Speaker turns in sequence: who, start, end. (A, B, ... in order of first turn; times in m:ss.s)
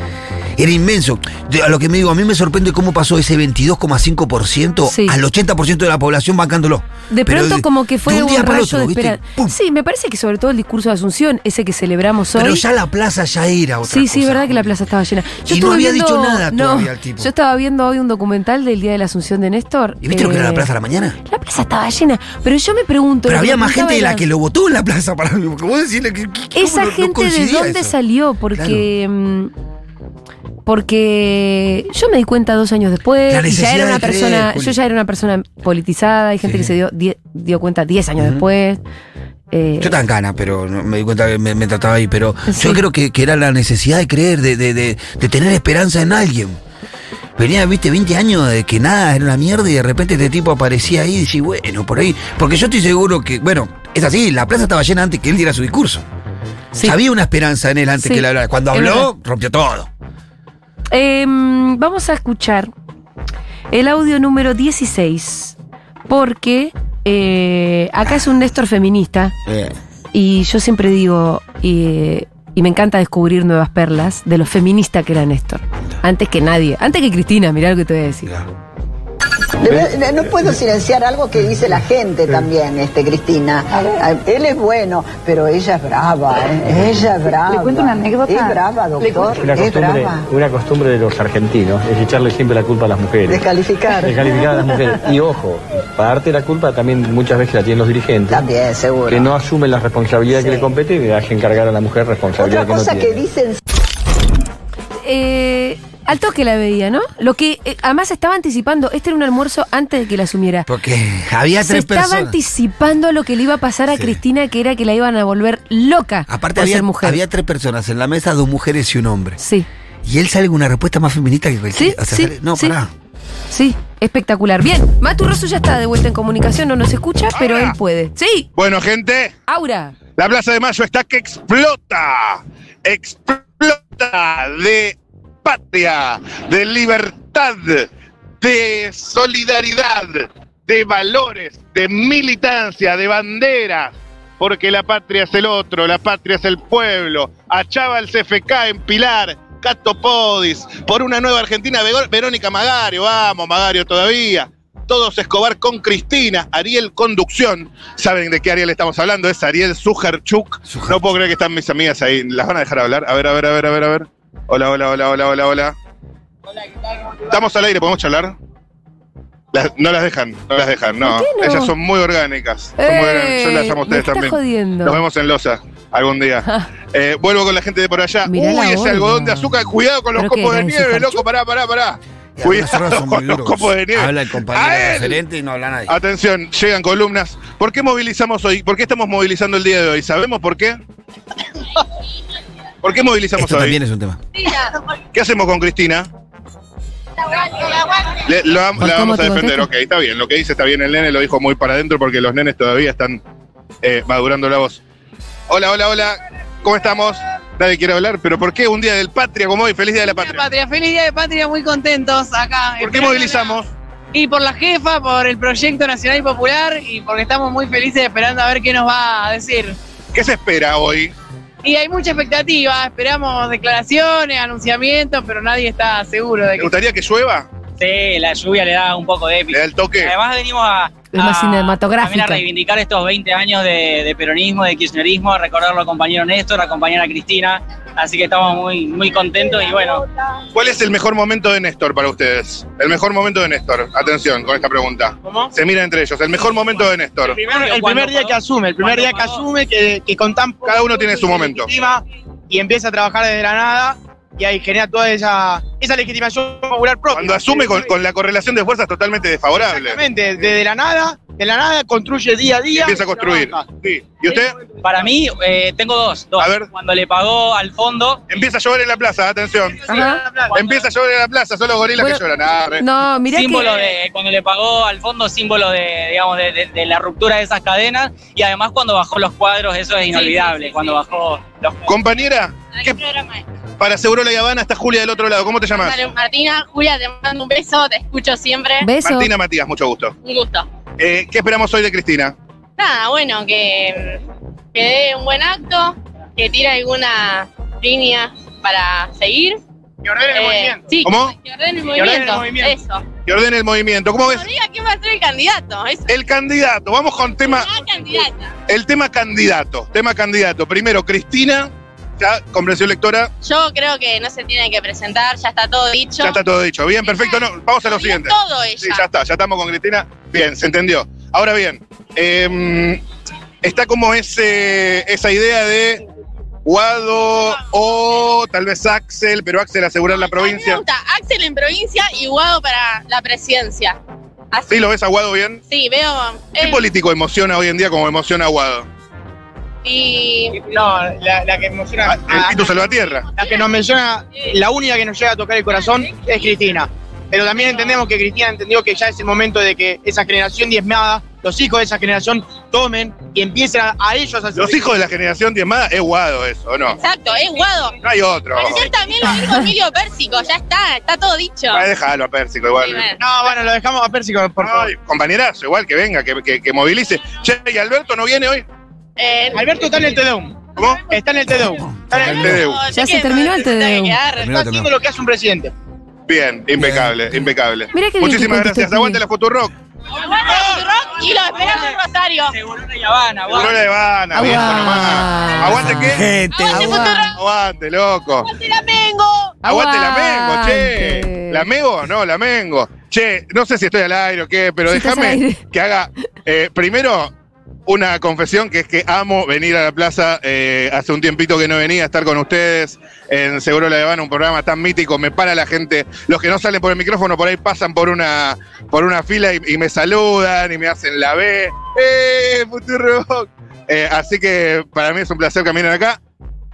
0:00.6-0:09.6 A
0:04.9-0:05.2 B
0:07.1-0:12.6 B
0:12.4-0:14.9 A
0:13.9-0:20.7 B
0:15.4-0:17.3 A
0:20.0-0:21.2 A
0:21.3-0:24.3 B
0:23.3-0:28.0 A
0:26.6-0:29.5 B
0:28.5-0:28.9 A
0:30.6-0:38.8 B
0:33.3-0:34.8 A
0:36.4-0:36.7 A
0:38.2-0:38.4 A
0:39.5-0:40.0 B
0:39.8-0:46.6 A
0:42.5-0:42.8 B
0:47.4-0:56.0 A
0:56.8-0:59.9 A
0:58.0-0:59.1 B
1:00.9-1:02.7 B
1:03.7-1:05.6 B
1:06.1-1:09.4 B
1:09.4-1:09.8 A
1:10.1-1:18.3 B
1:19.6-1:30.3 C
1:29.3-1:38.5 D
1:33.2-1:34.9 C
1:38.3-1:39.3 C
1:39.1-1:43.3 D
1:40.3-1:40.7 C
1:42.4-1:43.6 C
1:45.0-1:50.7 B
1:50.7-1:52.4 A
1:51.6-1:57.2 B
1:53.9-1:54.2 A
1:56.3-1:59.4 A
1:59.4-1:59.7 B
2:00.0-2:02.9 A
2:01.8-2:02.8 B
2:03.5-2:08.5 B
2:07.4-2:07.8 E
2:08.6-2:09.4 E
2:09.5-2:10.0 B
2:10.2-2:17.9 E
2:18.4-2:45.8 E
2:40.7-2:41.0 A
2:47.3-2:48.4 E
2:49.5-3:05.2 E
2:51.0-2:51.7 B
2:52.8-2:55.0 B
2:56.4-2:56.7 B
2:58.3-2:59.5 B
3:00.2-3:01.2 B
3:02.4-3:05.9 A
3:05.9-3:10.8 E
3:12.8-3:13.8 E
3:13.4-3:14.2 A
3:14.4-3:14.7 F
3:15.1-3:16.1 E
3:18.2-3:23.2 E
3:18.8-3:19.7 B
3:23.8-3:24.8 E
3:25.5-3:30.4 E
3:30.0-3:33.6 G
3:32.8-3:33.7 E
3:34.1-3:39.8 G
3:40.1-3:41.1 E
3:41.6-3:46.7 G
3:46.6-3:47.5 E
3:47.8-4:00.0 H
3:49.5-3:50.1 E
3:51.1-3:52.4 B
4:00.5-4:07.5 E
4:05.2-4:05.5 I
4:07.4-4:17.9 I
4:07.4-4:09.4 H
4:10.6-4:11.7 E
4:17.1-4:20.0 E
4:19.5-4:23.6 I
4:22.7-4:24.6 E
4:24.8-4:28.2 H
4:26.4-4:26.7 E
4:28.3-4:32.8 E
4:29.9-4:30.3 B
4:29.9-4:30.8 I
4:32.8-4:33.8 B
4:33.3-4:41.9 H
4:41.9-4:43.0 E
4:43.0-4:43.4 F
4:43.8-4:46.0 E
4:45.7-4:48.9 F
4:48.8-4:49.3 B
4:49.0-4:50.1 E
4:50.2-4:50.7 F
4:51.0-4:52.4 E
4:52.8-4:54.2 F
4:54.7-4:59.6 F
5:00.0-5:01.0 I
5:00.3-5:03.1 F
5:01.0-5:01.3 E
5:01.9-5:02.8 I
5:03.2-5:04.5 E
5:04.2-5:06.1 F
5:06.1-5:07.7 E
5:07.5-5:08.5 F
5:08.7-5:13.3 E
5:13.4-5:16.4 F
5:16.2-5:23.0 E
5:17.0-5:19.0 F
5:23.6-5:26.0 E
5:26.6-5:30.8 E
5:30.1-5:34.0 F
5:34.5-5:34.9 F
5:34.7-5:35.6 E
5:35.7-5:36.8 F
5:36.6-5:38.9 E
5:39.8-5:40.6 F
5:40.5-5:42.7 I
5:42.1-5:43.3 E
5:43.4-5:54.9 I
5:54.5-5:57.0 E
5:57.0-5:58.0 F
5:58.0-5:58.9 E
5:58.6-6:01.9 F
5:58.7-5:59.4 I
6:01.7-6:03.1 E
6:02.8-6:03.2 F
6:03.2-6:04.9 I
6:04.6-6:08.6 E
6:09.2-6:09.7 F
6:09.5-6:12.6 I
6:10.8-6:11.1 E
6:11.8-6:12.6 A
6:12.1-6:14.4 F
6:12.4-6:12.8 E
6:12.9-6:14.2 B
6:14.3-6:15.7 I
6:14.4-6:14.9 A
6:16.3-6:19.7 E
6:16.8-6:17.1 A
6:17.9-6:19.2 B
6:20.2-6:22.6 F
6:22.7-6:23.8 H
6:23.5-6:26.3 E
6:24.3-6:27.3 B
6:25.8-6:27.0 A
6:26.6-6:27.4 F
6:27.3-6:28.6 E
6:28.6-6:29.5 F
6:29.6-6:31.7 B
6:29.6-6:37.3 E
6:34.9-6:35.6 B
6:37.9-6:56.2 E